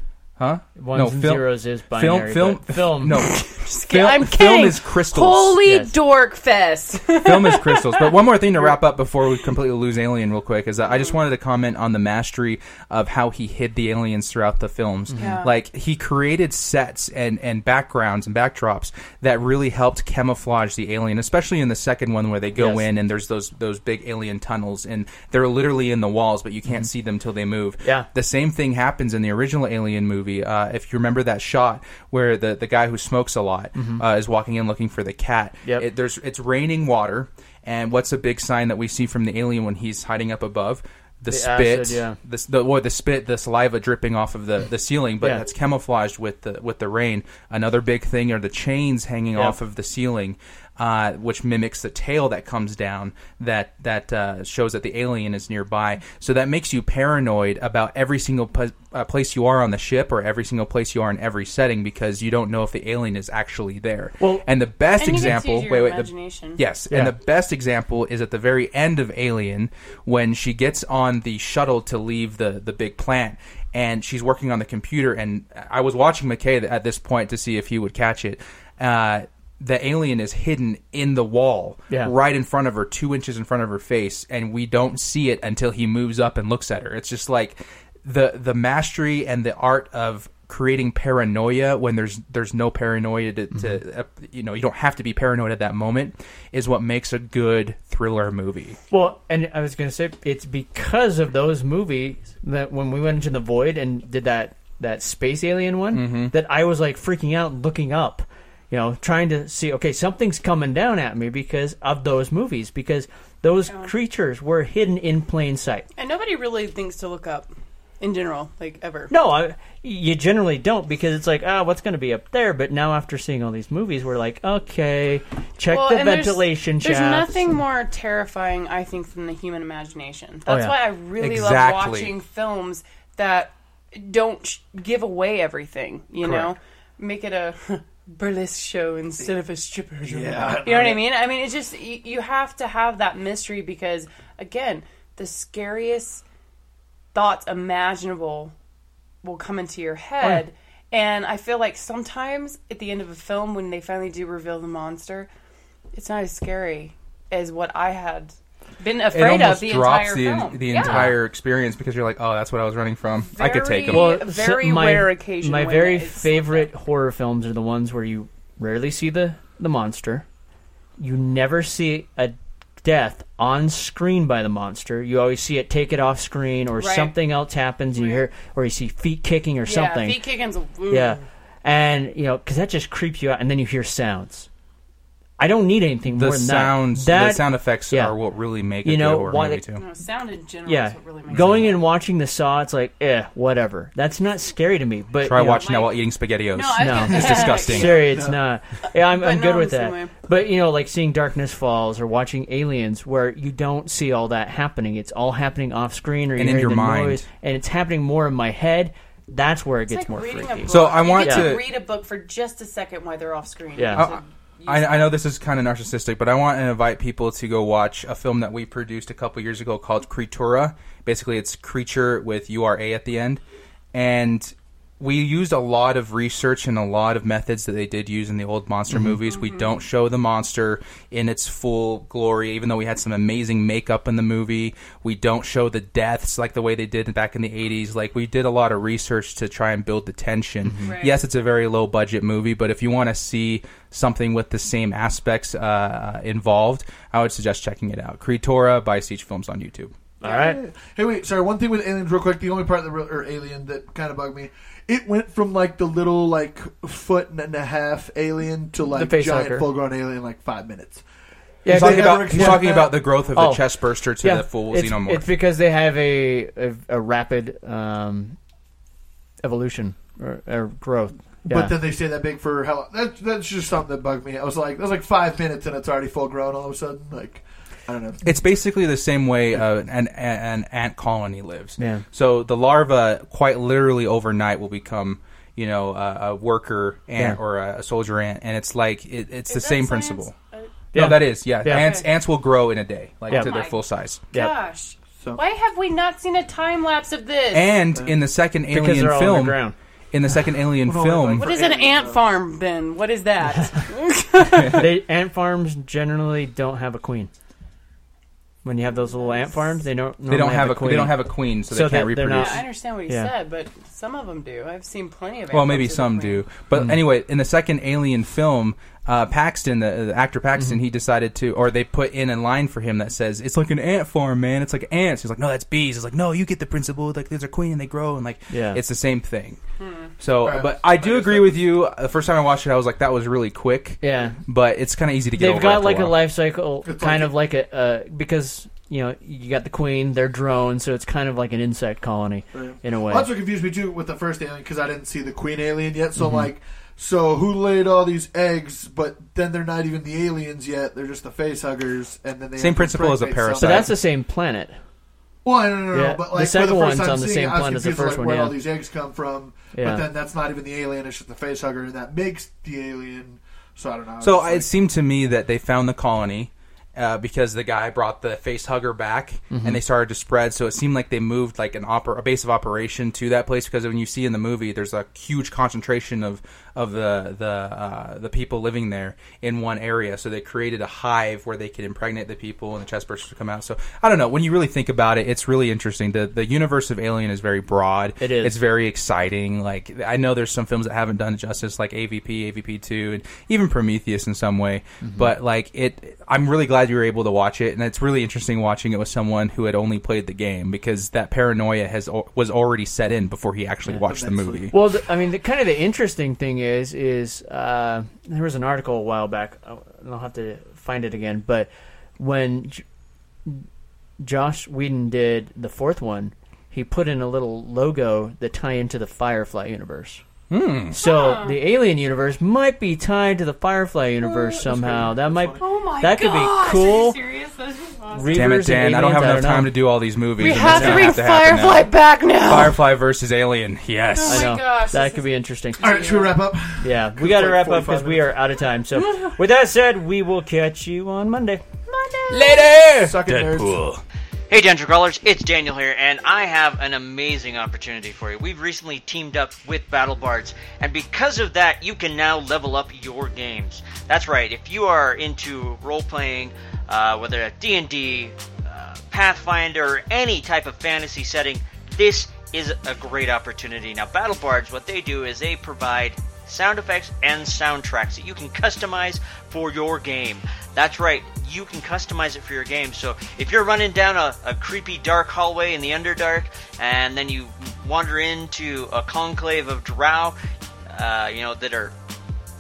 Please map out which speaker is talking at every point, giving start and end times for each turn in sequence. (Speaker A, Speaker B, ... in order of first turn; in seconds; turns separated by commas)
Speaker A: 0.4-5.6, Speaker B: 0.8-3.2, Speaker C: 3.1-8.8, Speaker B: 5.7-5.9, Speaker A: 7.2-98.8, Speaker C: 10.8-11.2, Speaker B: 15.1-15.4, Speaker C: 15.2-15.5, Speaker B: 22.6-22.9, Speaker B: 33.8-34.0, Speaker B: 41.3-42.2, Speaker B: 64.2-64.5, Speaker C: 65.0-66.6, Speaker B: 98.9-115.9, Speaker A: 105.9-106.3, Speaker C: 113.7-113.9, Speaker C: 116.0-119.1, Speaker B: 119.1-127.5, Speaker C: 125.7-146.2, Speaker B: 130.5-130.8, Speaker A: 131.2-132.1, Speaker A: 136.2-136.5, Speaker D: 140.1-141.0, Speaker B: 140.3-140.7, Speaker C: 147.1-148.5, Speaker C: 149.2-155.3, Speaker C: 155.9-161.1, Speaker A: 159.1-164.2, Speaker B: 160.8-161.2, Speaker C: 163.3-166.7, Speaker B: 163.9-170.3, Speaker B: 171.0-180.2, Speaker C: 176.8-177.2, Speaker C: 177.9-178.3, Speaker C: 179.7-181.3, Speaker B: 180.9-184.5, Speaker B: 185.4-188.2, Speaker A: 186.2-189.8, Speaker B: 188.8-189.6, Speaker C: 189.8-191.8, Speaker B: 190.7-195.7, Speaker A: 191.3-191.7, Speaker A: 195.2-198.1, Speaker C: 195.5-198.2, Speaker B: 196.8-211.6, Speaker D: 198.0-198.4, Speaker C: 198.9-200.1, Speaker A: 206.4-207.2, Speaker C: 209.9-215.2, Speaker A: 210.7-211.8, Speaker B: 213.8-214.1, Speaker A: 213.9-223.4, Speaker A: 223.9-249.9, Speaker B: 228.9-229.2, Speaker C: 229.3-229.8, Speaker B: 240.7-240.9, Speaker C: 240.8-241.2, Speaker B: 250.2-250.6, Speaker D: 250.2-261.0, Speaker B: 258.8-259.7, Speaker B: 261.6-262.7, Speaker D: 261.7-263.0, Speaker A: 261.7-265.3, Speaker B: 263.3-263.7, Speaker B: 264.2-268.4, Speaker B: 269.4-271.8, Speaker D: 271.5-278.2, Speaker A: 278.2-290.3, Speaker B: 281.8-282.1, Speaker C: 289.5-290.7, Speaker B: 290.9-291.9, Speaker A: 290.9-294.2, Speaker C: 291.7-292.1, Speaker C: 293.3-293.8, Speaker C: 294.3-297.7, Speaker A: 297.5-301.5, Speaker D: 297.9-298.2, Speaker B: 298.7-299.8, Speaker D: 300.8-302.3, Speaker C: 301.4-304.9, Speaker B: 304.4-307.3, Speaker A: 304.6-304.8, Speaker B: 308.6-313.3, Speaker C: 308.9-309.8, Speaker A: 310.3-312.6, Speaker C: 312.4-316.4, Speaker A: 315.5-329.6, Speaker B: 316.7-317.0, Speaker B: 328.5-328.8, Speaker C: 329.8-330.1, Speaker A: 330.2-336.2, Speaker D: 330.4-331.7, Speaker B: 334.0-334.4, Speaker B: 335.4-343.3, Speaker D: 336.8-337.4, Speaker D: 342.5-353.9, Speaker B: 346.2-346.5, Speaker A: 352.6-353.9, Speaker B: 353.6-354.8, Speaker D: 355.4-364.7, Speaker B: 355.9-358.6, Speaker B: 359.7-360.1, Speaker A: 364.2-404.7, Speaker B: 369.5-369.8, Speaker B: 388.2-388.6, Speaker B: 395.0-395.3, Speaker D: 403.9-404.7, Speaker B: 404.7-412.8, Speaker B: 414.2-420.2, Speaker A: 420.5-421.0, Speaker B: 420.9-427.2, Speaker C: 420.9-421.6, Speaker D: 424.2-425.7, Speaker C: 425.6-428.6, Speaker B: 428.1-429.8, Speaker A: 428.3-431.9, Speaker C: 430.4-432.9, Speaker B: 430.4-431.2, Speaker A: 432.4-434.5, Speaker C: 434.1-436.3, Speaker B: 434.3-436.0, Speaker D: 435.8-438.4, Speaker B: 436.8-441.6, Speaker C: 439.0-439.4, Speaker C: 441.9-442.8, Speaker A: 442.3-444.0, Speaker D: 443.0-443.8, Speaker E: 444.5-480.4, Speaker E: 480.9-481.9